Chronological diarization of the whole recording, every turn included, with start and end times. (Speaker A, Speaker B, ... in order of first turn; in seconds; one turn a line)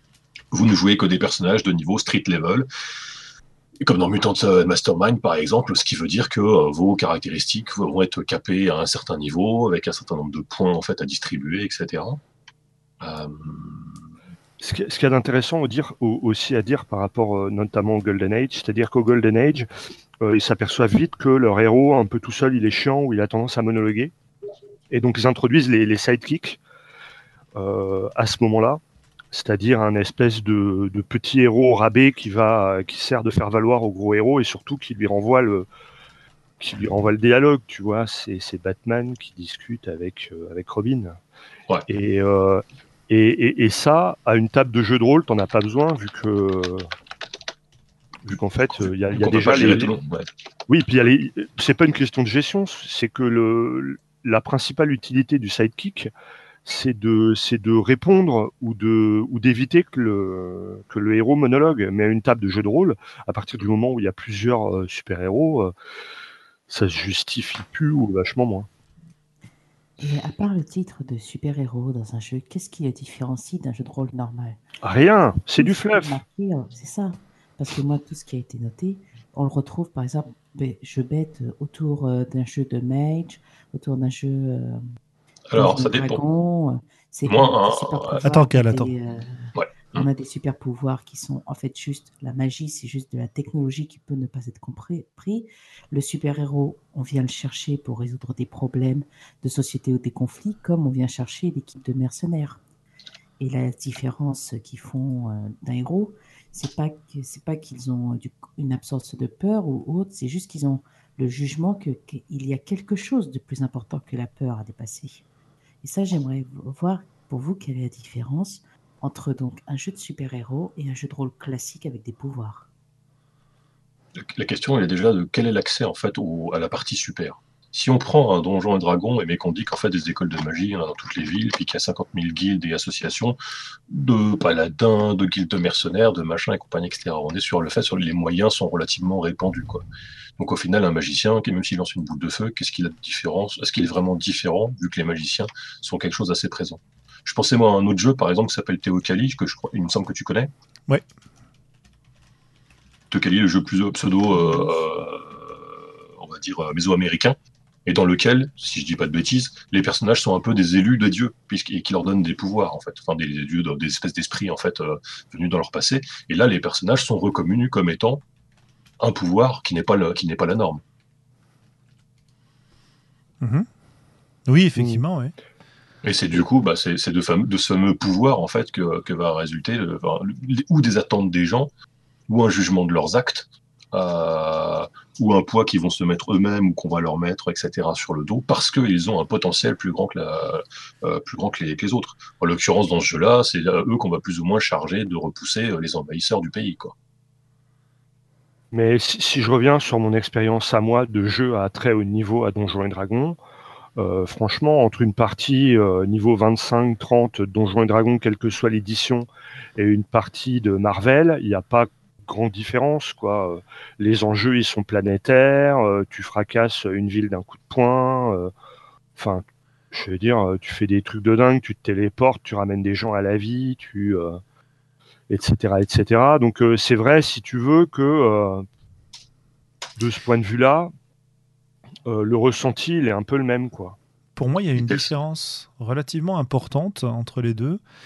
Speaker A: 0.5-2.7
Speaker A: 3.8-12.2
Speaker A: 13.0-14.0
Speaker B: 14.6-19.7
Speaker B: 20.2-24.1
Speaker B: 24.9-26.6
Speaker B: 27.6-28.8
Speaker B: 29.3-35.7
Speaker B: 36.6-41.2
Speaker B: 41.9-46.9
Speaker B: 48.3-50.0
Speaker A: 48.8-50.3
Speaker B: 50.7-56.1
Speaker B: 56.6-65.7
Speaker B: 66.7-68.7
Speaker C: 70.0-74.6
Speaker B: 74.8-76.2
Speaker C: 75.6-84.8
Speaker A: 85.5-86.2
Speaker C: 85.5-102.6
Speaker A: 87.3-88.2
Speaker D: 88.2-88.9
Speaker A: 89.5-90.1
Speaker C: 103.4-115.2
Speaker C: 115.8-122.7
Speaker A: 124.2-133.4
Speaker A: 133.9-139.8
Speaker A: 140.4-150.5
Speaker A: 153.1-168.2
Speaker A: 169.0-170.8
Speaker D: 173.4-173.7
Speaker D: 174.5-175.3
Speaker A: 176.0-181.7
Speaker A: 182.3-196.9
Speaker B: 198.7-203.4
Speaker B: 204.0-218.5
Speaker B: 219.2-224.4
Speaker B: 225.3-228.7
Speaker B: 230.0-230.9
Speaker B: 232.1-234.0
Speaker D: 234.4-237.8
Speaker A: 234.8-235.1